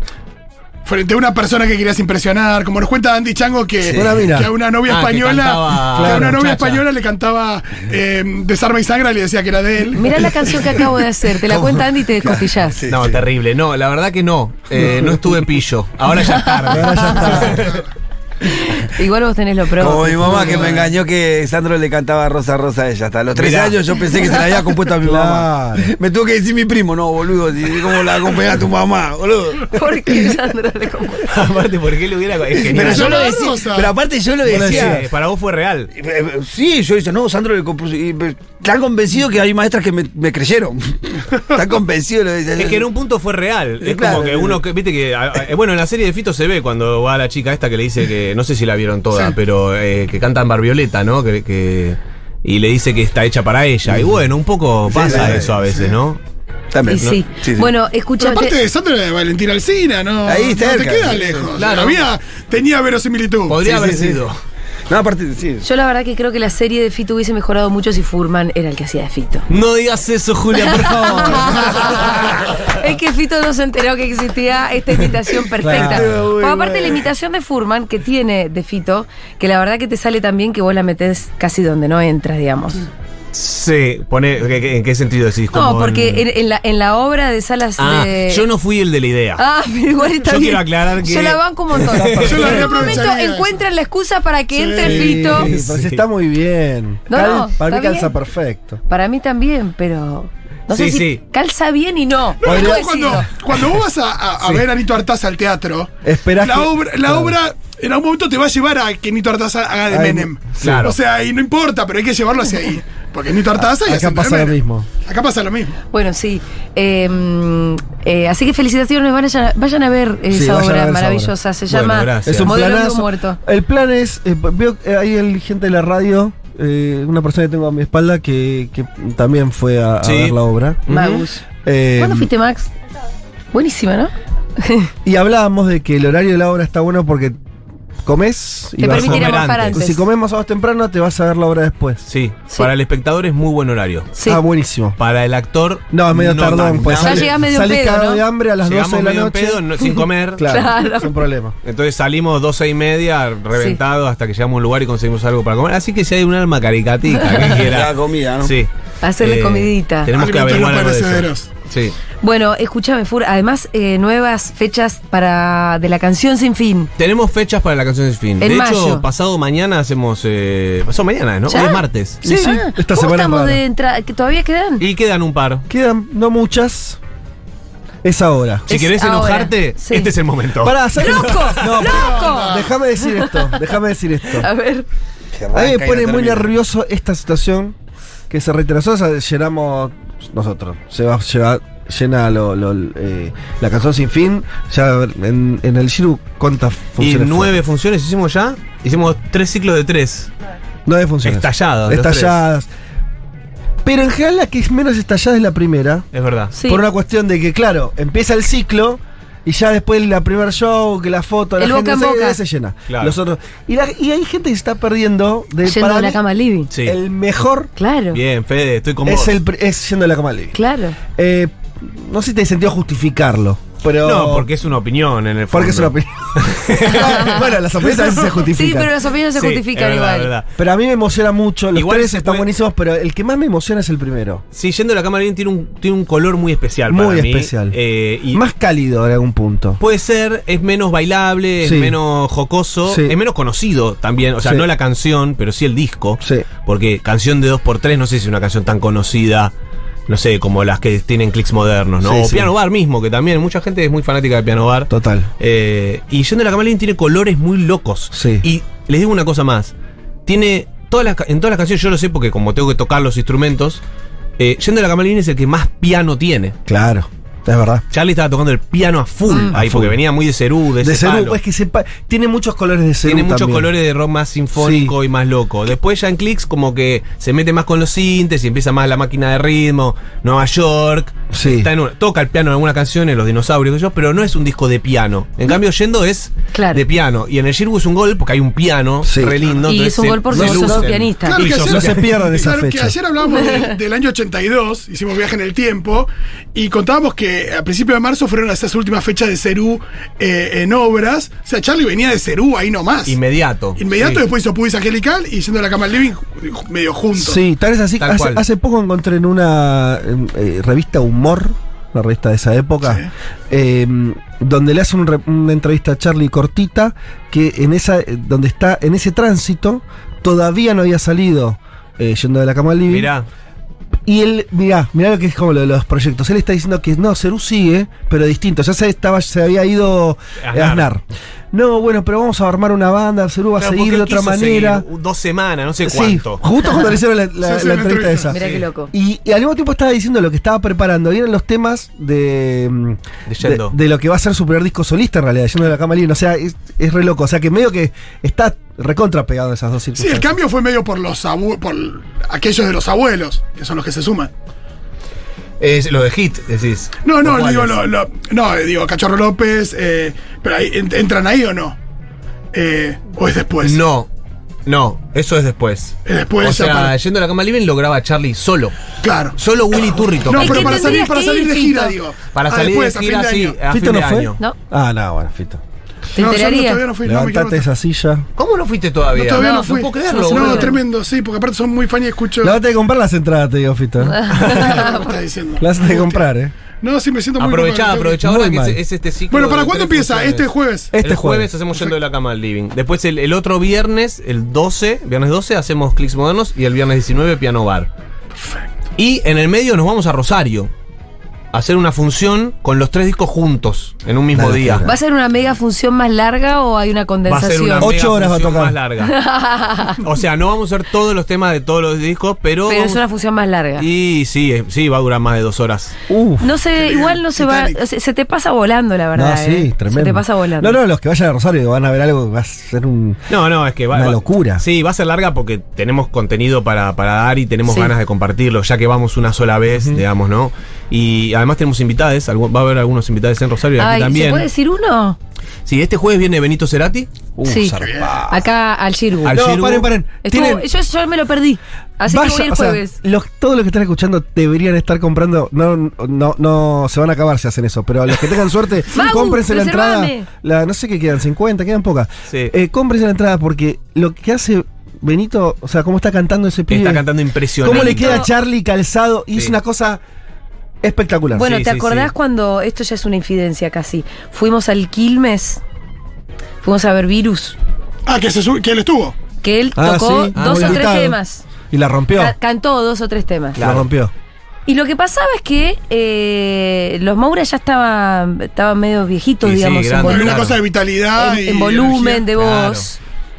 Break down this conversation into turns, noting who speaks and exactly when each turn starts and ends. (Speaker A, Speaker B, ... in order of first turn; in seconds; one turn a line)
Speaker A: 0.8-10.9
Speaker B: 3.9-4.5
Speaker C: 4.8-6.8
Speaker B: 5.9-6.4
Speaker D: 10.0-12.8
Speaker E: 12.8-13.2
Speaker C: 12.9-17.8
Speaker B: 16.7-17.8
Speaker D: 17.1-17.5
Speaker D: 18.4-20.8
Speaker E: 19.8-29.7
Speaker C: 20.4-20.9
Speaker C: 23.4-23.9
Speaker B: 25.0-25.9
Speaker D: 29.7-31.3
Speaker C: 31.3-33.4
Speaker E: 32.6-35.0
Speaker A: 32.8-34.0
Speaker C: 34.4-35.9
Speaker B: 34.5-35.0
Speaker E: 35.9-42.9
Speaker C: 42.6-56.2
Speaker E: 43.8-44.6
Speaker E: 54.9-55.6
Speaker E: 56.7-57.7
Speaker D: 56.9-58.5
Speaker A: 58.2-63.6
Speaker E: 60.2-61.5
Speaker C: 61.5-62.1
Speaker C: 63.5-64.4
Speaker E: 63.6-64.2
Speaker E: 64.9-65.7
Speaker D: 65.6-69.5
Speaker C: 69.5-72.3
Speaker D: 70.7-82.8
Speaker B: 75.6-76.8
Speaker E: 76.0-76.9
Speaker C: 83.3-86.2
Speaker D: 85.5-88.4
Speaker C: 87.8-89.4
Speaker D: 89.4-95.5
Speaker C: 90.1-92.6
Speaker B: 92.0-92.7
Speaker A: 92.2-93.5
Speaker A: 94.5-95.3
Speaker B: 94.8-98.8
Speaker C: 95.4-96.0
Speaker D: 97.1-98.1
Speaker D: 98.9-103.3
Speaker C: 100.7-101.2
Speaker A: 102.4-115.8
Speaker B: 102.5-102.8
Speaker B: 106.0-107.4
Speaker B: 109.9-110.9
Speaker C: 110.6-111.0
Speaker B: 113.6-114.9
Speaker D: 115.9-123.4
Speaker B: 120.3-121.3
Speaker C: 121.7-122.6
Speaker B: 122.2-130.8
Speaker C: 130.0-131.3
Speaker D: 130.9-131.4
Speaker B: 131.6-132.3
Speaker D: 132.0-132.7
Speaker D: 133.5-134.9
Speaker B: 135.1-137.4
Speaker B: 138.0-142.0
Speaker D: 138.8-140.0
Speaker C: 138.9-139.8
Speaker C: 142.1-144.1
Speaker D: 144.2-144.4
Speaker B: 144.3-145.0
Speaker C: 145.0-147.3
Speaker B: 145.9-149.7
Speaker D: 147.0-148.2
Speaker C: 148.6-150.6
Speaker B: 150.3-151.6
Speaker D: 150.5-151.2
Speaker C: 151.6-158.7
Speaker D: 157.2-157.5
Speaker E: 157.5-158.5
Speaker D: 159.0-160.1
Speaker C: 159.2-161.9
Speaker A: 160.1-161.5
Speaker D: 162.2-166.9
Speaker C: 167.0-172.5
Speaker D: 168.4-169.1
Speaker D: 171.5-174.8
Speaker B: 172.2-173.6
Speaker C: 174.8-175.7
Speaker B: 175.7-177.0
Speaker B: 178.0-178.7
Speaker C: 178.7-181.8
Speaker D: 178.7-180.1
Speaker B: 180.6-184.5
Speaker D: 181.0-183.6
Speaker A: 181.9-182.7
Speaker D: 184.3-184.9
Speaker E: 185.4-186.5
Speaker B: 185.5-187.8
Speaker B: 188.3-197.6
Speaker C: 197.0-200.3
Speaker B: 200.9-202.7
Speaker C: 201.2-202.4
Speaker B: 203.8-206.1
Speaker C: 206.1-206.5
Speaker D: 206.5-206.8
Speaker B: 206.7-216.2
Speaker D: 211.6-212.4
Speaker C: 212.9-213.2
Speaker D: 215.7-216.7
Speaker C: 216.7-217.0
Speaker B: 216.8-217.7
Speaker D: 217.8-218.2
Speaker C: 218.1-219.3
Speaker B: 219.1-220.6
Speaker D: 220.5-221.0
Speaker B: 221.2-224.5
Speaker C: 224.0-227.5
Speaker B: 225.5-228.9
Speaker D: 226.9-227.4
Speaker D: 228.4-230.3
Speaker C: 229.3-230.5
Speaker B: 230.6-234.4
Speaker C: 231.7-232.5
Speaker C: 234.5-238.4
Speaker B: 236.9-237.8
Speaker B: 238.3-239.8
Speaker C: 239.8-249.5
Speaker B: 241.6-242.0
Speaker B: 242.9-243.2
Speaker B: 244.4-244.7
Speaker B: 246.2-246.5
Speaker C: 250.1-259.7
Speaker B: 252.0-252.5
Speaker B: 254.9-255.3
Speaker B: 258.1-258.4
Speaker C: 260.3-263.8
Speaker C: 264.4-266.6
Speaker B: 266.7-267.8
Speaker C: 267.9-271.4
Speaker B: 269.3-270.0
Speaker B: 270.8-273.7
Speaker C: 273.1-292.2
Speaker B: 274.6-274.9
Speaker B: 281.3-281.7
Speaker D: 286.5-286.8
Speaker B: 289.0-289.4
Speaker D: 289.7-291.4
Speaker B: 290.3-293.0
Speaker A: 291.2-303.2
Speaker C: 303.1-304.2
Speaker A: 303.8-307.4
Speaker B: 307.2-323.1
Speaker C: 308.0-308.4
Speaker C: 322.9-323.3
Speaker B: 324.1-334.9
Speaker C: 330.4-330.9
Speaker C: 333.6-336.4
Speaker B: 335.8-350.4
Speaker A: 337.4-338.3
Speaker D: 338.3-338.9
Speaker C: 338.4-338.6
Speaker C: 343.3-343.7
Speaker A: 350.0-354.3
Speaker C: 355.6-357.8
Speaker A: 357.1-361.8
Speaker A: 362.5-363.8
Speaker C: 363.6-364.1
Speaker C: 364.7-368.8
Speaker A: 366.1-366.9
Speaker A: 369.0-373.6
Speaker C: 369.4-371.1
Speaker D: 370.4-371.9
Speaker C: 372.3-374.4
Speaker B: 373.7-375.6
Speaker D: 376.1-376.8
Speaker A: 376.2-377.7
Speaker B: 377.0-378.3
Speaker C: 378.4-380.8
Speaker A: 379.1-382.6
Speaker D: 379.3-380.8
Speaker B: 382.4-384.4
Speaker D: 384.1-385.1
Speaker A: 384.4-386.2
Speaker B: 385.6-386.5
Speaker A: 386.8-388.2
Speaker C: 387.4-397.9
Speaker B: 388.2-388.8
Speaker A: 389.3-390.9
Speaker B: 390.9-391.5
Speaker A: 398.4-398.7
Speaker C: 399.0-400.7
Speaker C: 401.5-404.9
Speaker B: 404.3-405.0
Speaker D: 404.8-407.9
Speaker C: 407.3-409.1
Speaker B: 407.8-408.8
Speaker D: 409.0-410.0
Speaker C: 410.0-413.0
Speaker D: 412.7-413.9
Speaker C: 413.8-415.9
Speaker B: 416.1-416.5
Speaker D: 416.4-420.8
Speaker A: 416.8-417.8
Speaker B: 419.1-423.2
Speaker C: 423.3-434.5
Speaker B: 423.9-424.6
Speaker D: 433.8-435.2
Speaker C: 435.7-437.1
Speaker B: 437.4-438.4
Speaker D: 437.4-439.4
Speaker A: 437.8-438.1
Speaker C: 439.2-439.9
Speaker B: 439.3-440.7
Speaker D: 440.2-443.0
Speaker B: 442.1-457.1
Speaker D: 448.9-450.3
Speaker C: 456.7-458.2
Speaker B: 457.6-460.0
Speaker D: 457.7-458.3
Speaker B: 460.8-461.5
Speaker D: 461.4-465.6
Speaker C: 461.4-462.1
Speaker D: 466.6-467.6
Speaker A: 468.1-469.2
Speaker D: 469.4-471.4
Speaker B: 469.8-471.2
Speaker C: 470.4-470.9
Speaker B: 471.7-472.4
Speaker D: 472.2-473.6
Speaker C: 473.6-473.9
Speaker B: 473.6-474.1
Speaker D: 474.7-480.5
Speaker C: 479.4-480.6
Speaker A: 480.0-482.3
Speaker D: 481.2-483.0
Speaker C: 482.4-482.9